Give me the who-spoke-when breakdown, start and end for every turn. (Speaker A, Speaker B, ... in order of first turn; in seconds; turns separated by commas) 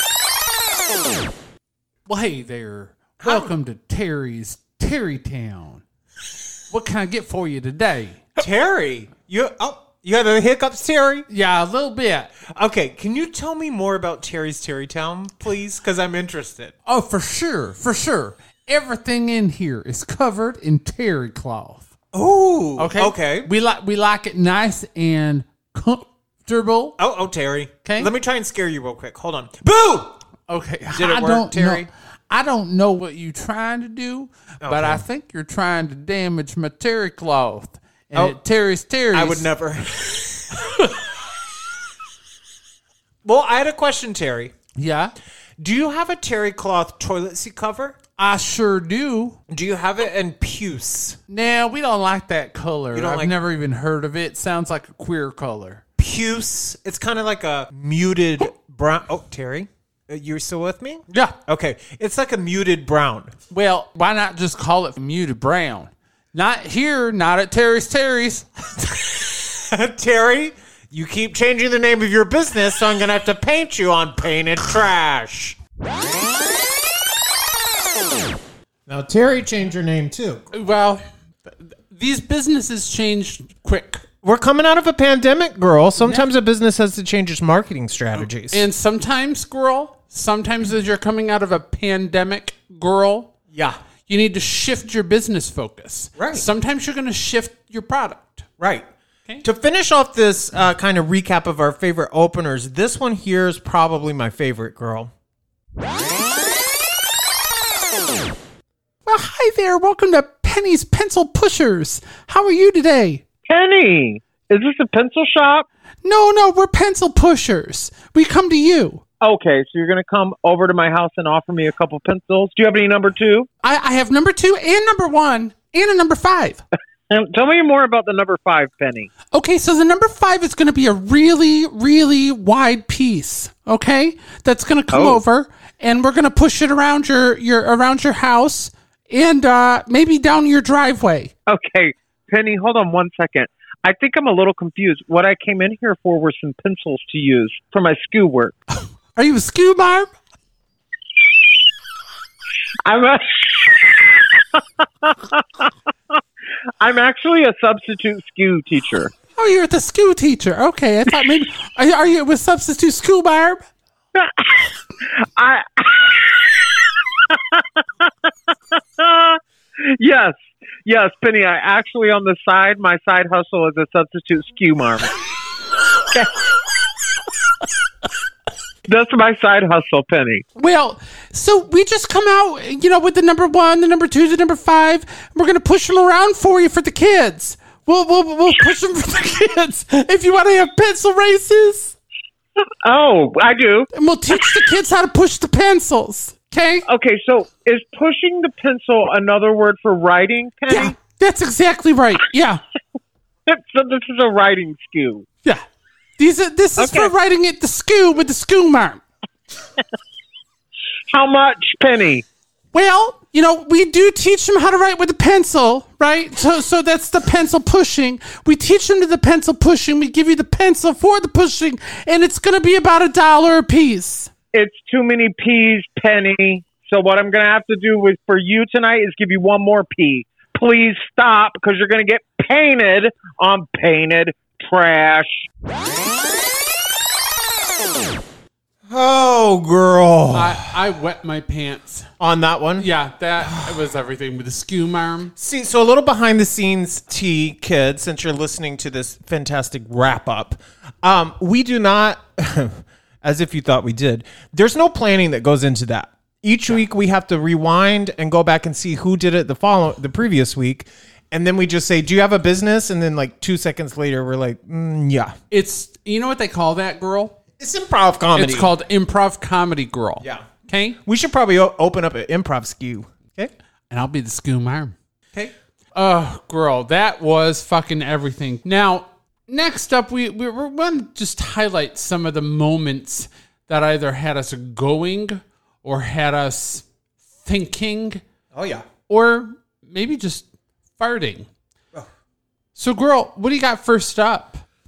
Speaker A: 2.1-5.8, Speaker B: 3.2-3.5, Speaker A: 6.7-8.3, Speaker B: 8.4-11.3, Speaker A: 11.3-12.3, Speaker B: 12.5-16.7, Speaker A: 16.9-21.9, Speaker B: 22.1-23.5, Speaker A: 22.8-27.0, Speaker B: 27.0-30.2, Speaker A: 27.8-28.1, Speaker A: 30.5-39.5, Speaker B: 30.9-31.9, Speaker B: 34.6-35.0, Speaker B: 39.1-40.9, Speaker B: 43.2-44.5, Speaker A: 44.8-45.1, Speaker B: 45.6-48.0, Speaker A: 48.2-49.4, Speaker B: 49.5-51.2, Speaker A: 51.3-55.8, Speaker B: 52.9-53.4, Speaker B: 56.0-63.4, Speaker A: 61.1-61.4, Speaker A: 63.5-68.7, Speaker B: 68.9-75.6, Speaker B: 78.9-80.5, Speaker A: 80.5-84.0, Speaker B: 84.2-88.6, Speaker A: 88.5-93.3, Speaker B: 93.5-93.8, Speaker A: 94.1-98.5, Speaker B: 96.2-96.5, Speaker B: 98.6-98.9, Speaker B: 99.4-105.1, Speaker A: 109.1-113.2, Speaker C: 113.5-115.7, Speaker A: 116.0-119.0, Speaker C: 119.2-123.5, Speaker A: 123.6-126.6, Speaker C: 127.1-129.1, Speaker A: 129.3-141.3, Speaker C: 134.9-135.2, Speaker C: 141.5-148.6, Speaker A: 149.1-150.1, Speaker C: 152.8-155.7, Speaker C: 156.8-159.1, Speaker A: 159.4-163.6, Speaker C: 164.2-168.1, Speaker C: 169.0-175.2, Speaker C: 176.1-176.6, Speaker C: 178.9-180.4, Speaker A: 180.6-191.9, Speaker C: 192.8-193.9, Speaker A: 193.9-196.9, Speaker C: 196.9-200.9, Speaker A: 200.7-202.6, Speaker C: 203.5-205.3, Speaker A: 206.2-209.0, Speaker C: 206.8-207.1, Speaker C: 211.1-212.2, Speaker A: 212.7-224.3, Speaker C: 224.5-235.5, Speaker B: 238.9-240.7, Speaker A: 240.3-242.1, Speaker B: 242.2-242.9, Speaker A: 242.8-245.3, Speaker B: 245.4-265.4, Speaker A: 265.5-267.4, Speaker B: 267.6-268.7, Speaker A: 268.4-271.0, Speaker B: 270.2-270.5, Speaker B: 271.0-273.5, Speaker A: 273.9-274.9, Speaker A: 275.9-286.9, Speaker A: 287.4-288.2, Speaker B: 288.5-288.9, Speaker A: 289.1-290.5, Speaker A: 291.0-291.5, Speaker A: 292.8-294.6